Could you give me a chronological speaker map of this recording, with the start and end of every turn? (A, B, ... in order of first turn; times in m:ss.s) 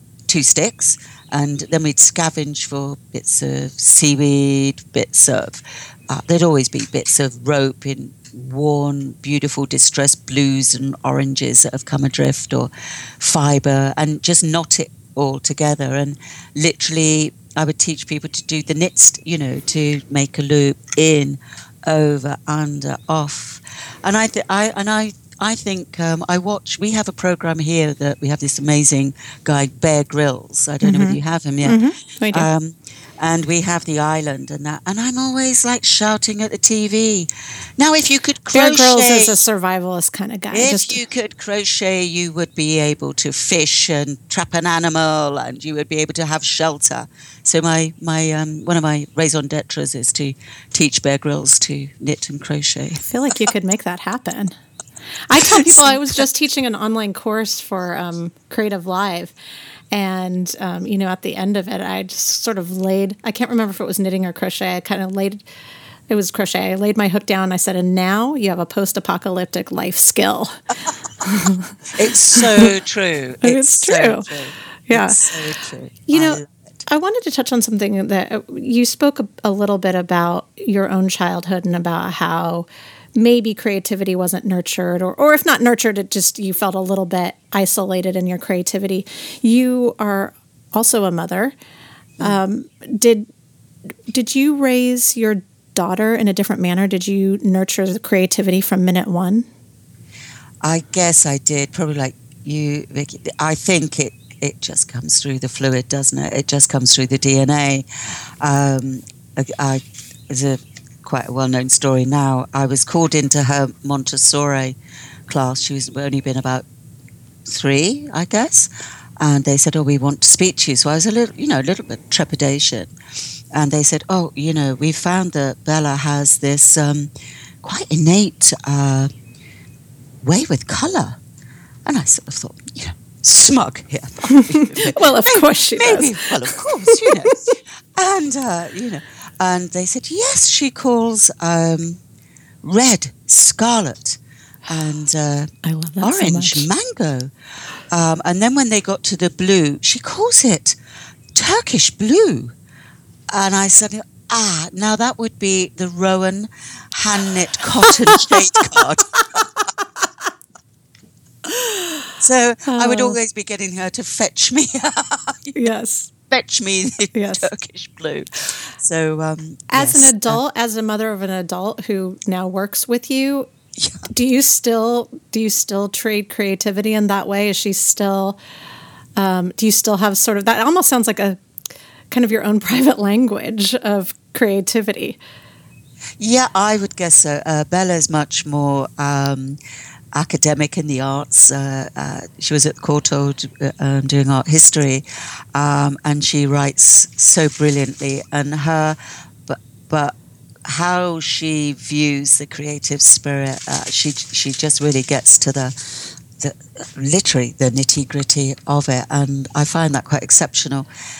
0:00.3-0:39.4 A
0:30.8-0:32.5 B
0:38.5-0:41.0 B
0:40.5-0:53.0 A
0:53.0-0:54.5 B
0:55.3-0:59.3 B
0:55.4-0:56.0 A
0:59.9-1:05.4 B
1:06.1-1:10.5 B
1:11.2-1:11.7 B
1:11.4-1:16.5 A
1:12.3-1:12.7 B
1:13.4-1:14.3 B
1:14.9-1:15.3 B
1:16.1-1:31.6 B
1:32.2-1:33.3 B
1:34.1-1:39.5 B
1:40.6-1:54.8 A
1:55.3-1:56.6 A
1:57.4-2:02.9 A
2:03.5-2:07.1 A
2:07.6-2:09.1 A
2:10.2-2:11.2 A
2:11.8-2:22.0 A
2:14.3-2:17.5 B
2:22.6-2:27.3 A
2:25.6-2:26.7 B
2:27.9-2:30.8 A
2:31.3-2:32.5 A
2:33.3-2:39.5 A
2:37.9-2:39.6 B
2:41.5-2:42.0 B
2:42.2-2:45.6 A
2:42.7-2:43.2 B
2:45.6-2:46.1 B
2:46.3-2:50.4 A
2:47.1-2:47.5 B
2:49.7-2:53.5 B
2:53.8-2:54.0 A
2:54.1-2:58.4 B
2:59.2-3:01.4 B
3:02.1-3:05.2 B
3:06.2-3:09.6 A
3:10.1-3:30.9 A